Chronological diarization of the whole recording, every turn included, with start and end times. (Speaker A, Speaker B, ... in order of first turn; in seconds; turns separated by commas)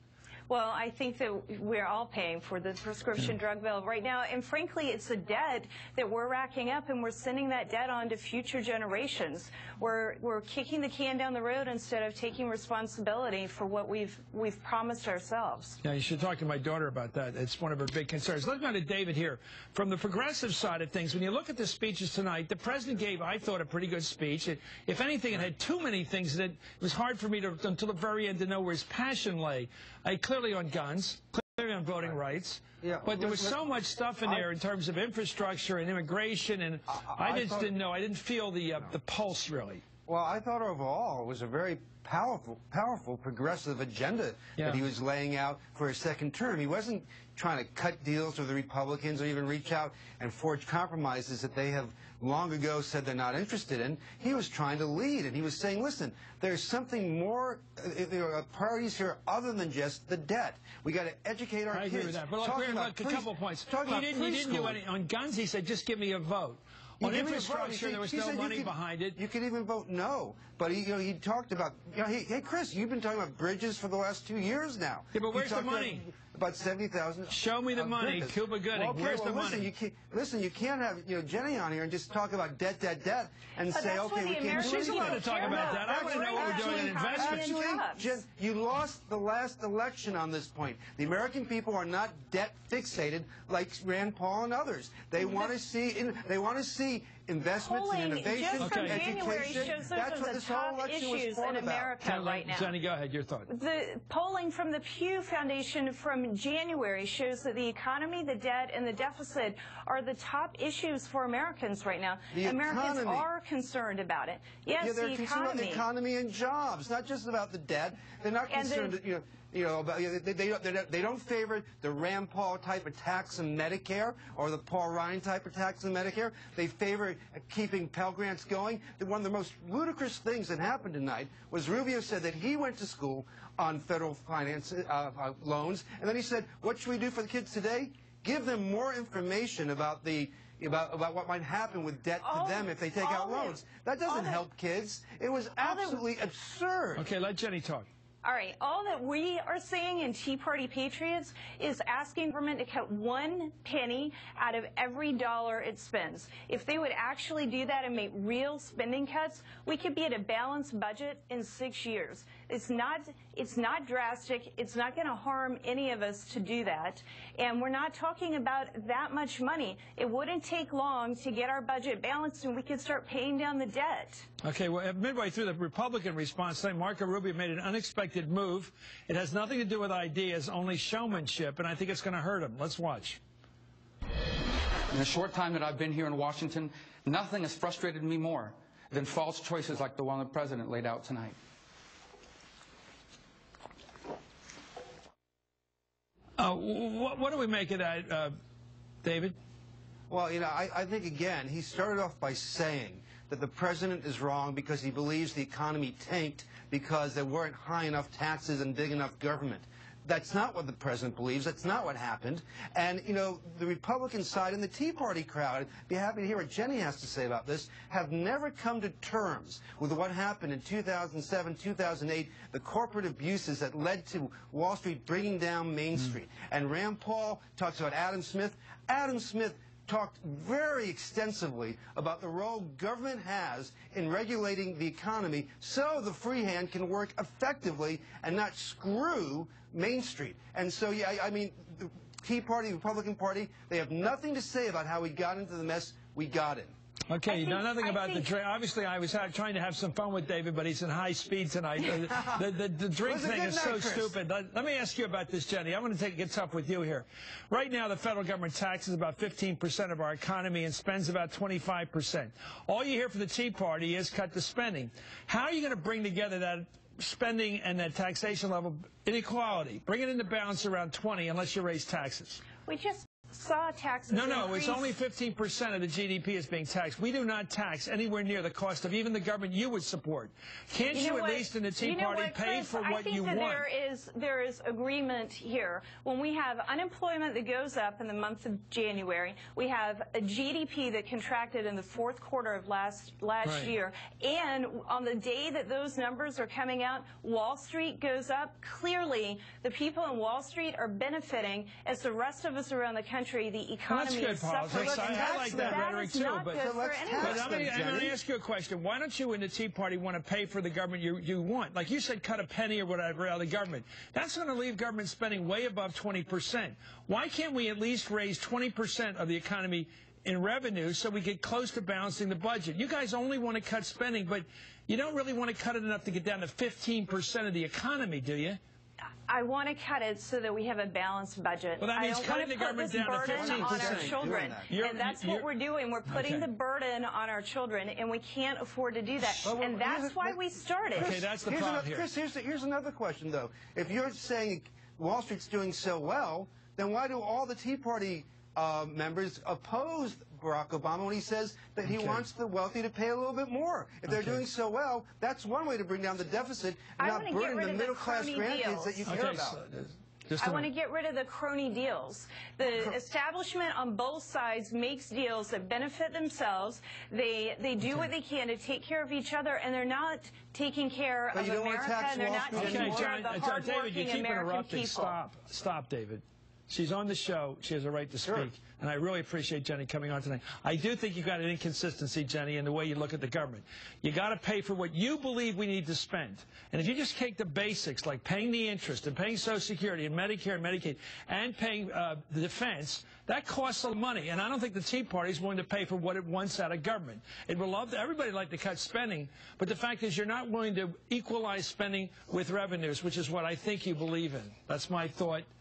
Speaker A: 0.5-15.8, Speaker B: 15.8-39.8, Speaker C: 32.8-33.6, Speaker C: 36.9-37.8, Speaker C: 40.1-64.8, Speaker B: 61.7-69.2, Speaker C: 67.0-102.0, Speaker B: 75.1-76.1, Speaker B: 77.3-79.7, Speaker A: 83.7-88.2, Speaker B: 84.5-87.5, Speaker A: 95.2-95.5, Speaker A: 97.6-102.8, Speaker B: 98.5-99.1, Speaker B: 102.0-103.5, Speaker A: 103.5-115.9, Speaker C: 112.3-113.3, Speaker C: 114.8-147.1, Speaker A: 118.5-119.0, Speaker A: 142.2-144.4, Speaker A: 145.6-146.0, Speaker B: 147.0-147.9, Speaker A: 148.2-174.3, Speaker B: 174.4-183.2, Speaker D: 184.9-191.3, Speaker B: 196.4-198.3, Speaker B: 199.0-199.4, Speaker C: 200.1-246.7, Speaker B: 247.1-272.4, Speaker A: 247.2-248.3, Speaker C: 253.0-254.2, Speaker A: 272.7-274.9, Speaker B: 274.1-283.7, Speaker A: 280.9-307.8, Speaker B: 293.4-293.7, Speaker B: 303.9-306.6, Speaker C: 304.7-305.9, Speaker C: 306.6-308.2, Speaker B: 307.2-328.6, Speaker A: 329.3-341.2, Speaker B: 331.8-335.5, Speaker C: 333.2-334.7, Speaker B: 336.1-336.5, Speaker C: 339.4-340.4, Speaker B: 341.0-342.1, Speaker C: 341.0-359.6, Speaker B: 351.8-352.3, Speaker B: 354.1-354.4, Speaker A: 357.0-359.2, Speaker B: 359.1-360.7, Speaker A: 360.4-375.2, Speaker C: 362.6-363.0, Speaker B: 367.8-368.1, Speaker C: 371.3-373.1, Speaker B: 372.5-405.5, Speaker C: 378.2-378.5